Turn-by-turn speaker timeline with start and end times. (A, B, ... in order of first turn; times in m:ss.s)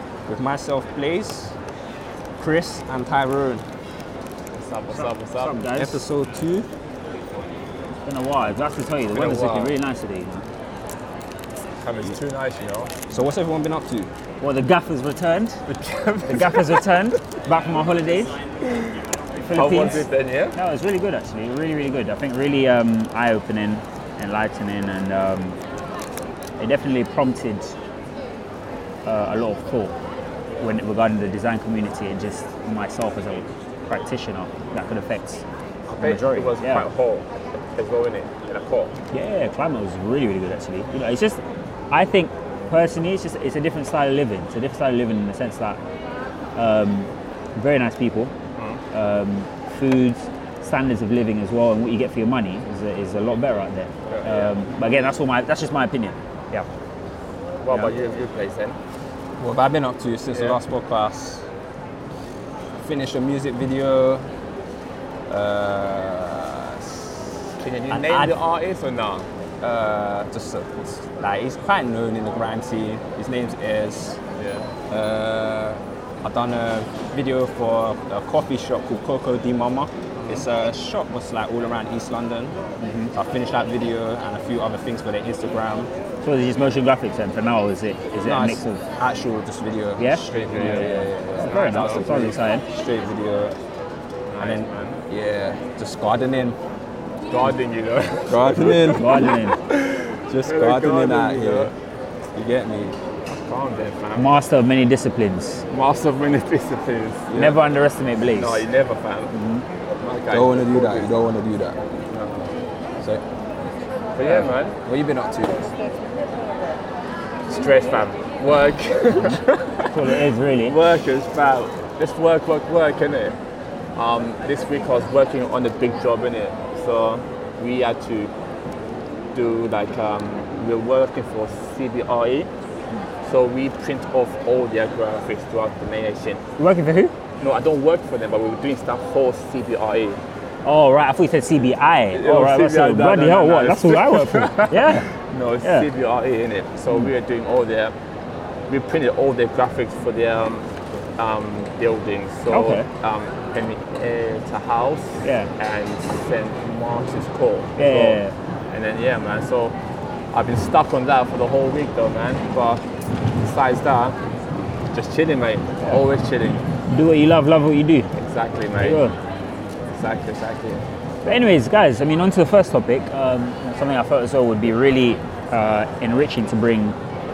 0:00.3-0:01.6 A
0:02.4-0:03.6 A
0:04.5-0:05.6 B
0:04.9-0:06.0 C
0:05.8-0:06.7 A
0:08.0-0:10.4 C
0:09.1-0:09.8 B
0:11.7-0:12.9 B
0:13.1-0:14.1 A
0:14.4-0:15.6 C
0:15.7-0:16.8 B
0:16.3-0:18.3 C
0:19.4-0:25.6 C
0:19.5-0:20.6 B
0:26.6-0:27.7 C
0:29.0-0:29.9 C
0:30.6-0:36.9 C
0:35.9-0:39.0 B
0:39.1-0:45.8 C
0:46.5-0:48.3 C
0:48.5-0:48.8 B
0:48.9-0:56.6 C
0:54.1-0:54.5 B
0:57.6-0:58.8 B
0:59.4-1:01.5 A
1:00.3-1:00.6 B
1:02.8-1:04.2 A
1:05.3-1:07.3 A
1:07.6-1:10.3 B
1:07.9-1:08.4 A
1:10.3-1:14.2 A
1:14.4-1:14.7 B
1:14.9-1:22.6 A
1:20.2-1:20.4 B
1:22.8-1:23.1 C
1:23.1-1:25.9 A
1:26.2-1:28.8 C
1:28.2-1:33.6 A
1:30.0-1:32.6 C
1:30.2-1:32.3 B
1:34.3-1:35.0 B
1:34.4-1:36.6 A
1:37.3-1:41.7 B
1:38.3-1:39.4 A
1:38.9-1:39.6 C
1:40.3-1:41.7 A
1:42.3-1:42.9 A
1:43.2-1:44.3 B
1:44.2-1:45.6 C
1:45.7-1:47.3 B
1:47.3-1:47.6 A
1:47.3-1:48.6 C
1:48.3-1:49.3 B
1:49.3-1:49.6 C
1:50.0-1:51.1 B
1:50.3-1:51.8 A
1:52.1-1:52.5 B
1:54.2-1:54.8 B
1:54.8-1:55.9 A
1:57.5-2:03.4 B
1:59.9-2:00.8 C
2:04.0-2:08.3 B
2:09.3-2:12.5 B
2:13.2-2:16.4 B
2:16.6-2:17.1 C
2:17.4-2:20.2 B
2:20.6-2:25.1 C
2:22.1-2:27.9 B
2:25.6-2:25.9 C
2:28.7-2:38.2 B
2:32.5-2:32.9 C
2:35.2-2:35.5 C
2:37.8-2:38.3 C
2:38.7-2:39.7 B
2:40.3-2:42.8 B
2:43.4-2:44.2 B
2:44.9-2:46.6 B
2:46.9-2:48.1 C
2:48.1-2:49.0 B
2:48.8-2:49.1 C
2:49.9-2:50.8 B
2:51.2-2:57.0 C